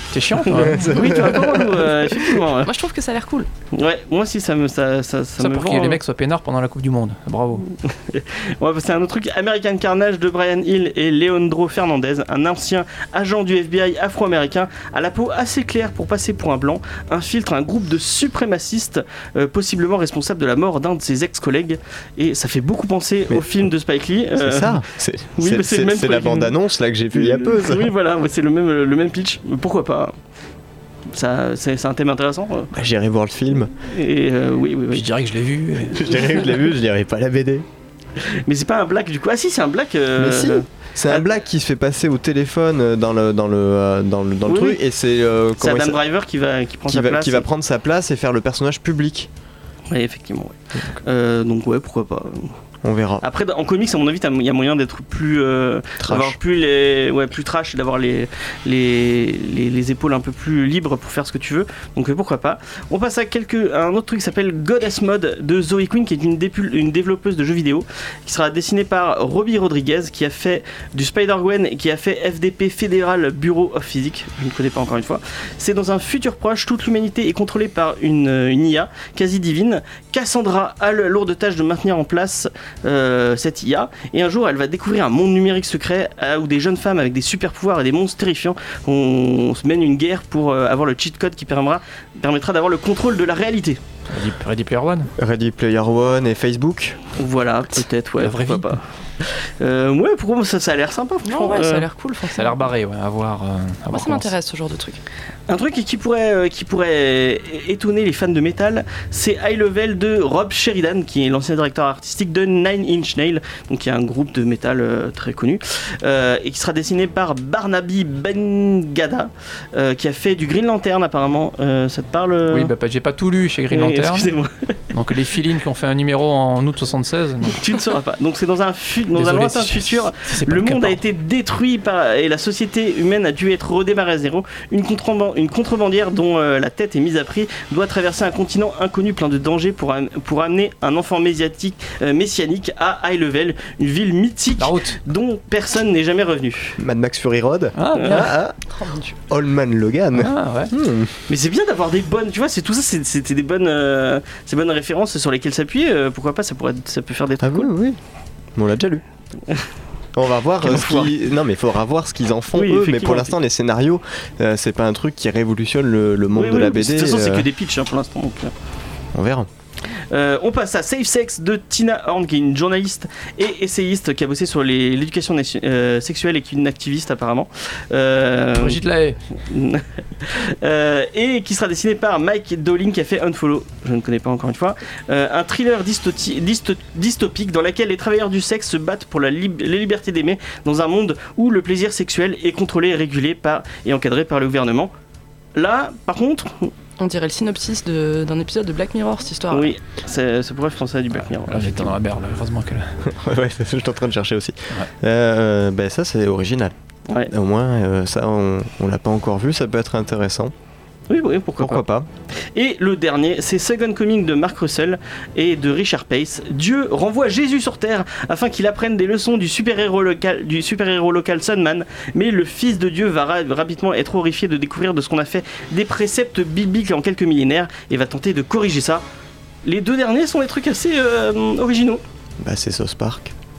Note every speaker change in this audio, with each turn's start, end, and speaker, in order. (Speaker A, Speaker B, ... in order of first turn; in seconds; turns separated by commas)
Speaker A: 0.1-1.3, Speaker B: 0.5-2.7, Speaker C: 0.5-2.4, Speaker D: 2.6-3.5, Speaker B: 3.7-6.0, Speaker A: 5.4-7.7, Speaker B: 7.8-24.8, Speaker C: 24.4-27.9, Speaker B: 25.4-26.6, Speaker B: 27.1-30.1, Speaker B: 31.1-32.7, Speaker C: 32.7-33.7, Speaker B: 33.8-35.1, Speaker A: 34.9-36.2, Speaker C: 35.9-37.6, Speaker B: 38.2-41.2, Speaker C: 40.2-46.0, Speaker B: 44.5-44.8, Speaker B: 45.6-47.5, Speaker C: 46.9-49.3, Speaker B: 49.9-52.5, Speaker C: 52.8-53.2, Speaker B: 53.2-93.8, Speaker C: 56.0-56.4, Speaker A: 94.1-95.1, Speaker C: 95.2-97.0, Speaker B: 97.2-101.9, Speaker A: 98.2-98.8, Speaker D: 101.2-102.6, Speaker A: 102.3-104.3, Speaker D: 103.9-105.0, Speaker B: 105.5-122.7, Speaker A: 122.5-124.3, Speaker B: 123.7-124.8, Speaker A: 124.9-127.6, Speaker B: 127.5-146.8, Speaker A: 129.2-131.0, Speaker A: 144.6-145.0, Speaker C: 146.8-148.6, Speaker A: 147.8-148.3, Speaker D: 148.7-149.2, Speaker C: 149.3-151.1, Speaker A: 150.2-150.7, Speaker B: 151.3-157.7, Speaker C: 157.4-158.0, Speaker C: 158.6-159.0, Speaker C: 160.2-167.5, Speaker B: 160.6-161.2, Speaker B: 162.5-163.3, Speaker B: 166.4-168.5, Speaker C: 169.1-169.5, Speaker B: 170.1-178.8, Speaker A: 178.6-179.2, Speaker B: 179.4-194.9, Speaker B: 195.6-196.7, Speaker D: 197.0-199.7, Speaker B: 199.5-201.9, Speaker A: 201.2-203.1, Speaker C: 203.1-206.7, Speaker C: 207.3-210.5, Speaker B: 211.1-211.8, Speaker C: 211.6-212.1, Speaker B: 212.4-229.0, Speaker B: 229.6-232.0, Speaker C: 232.4-233.3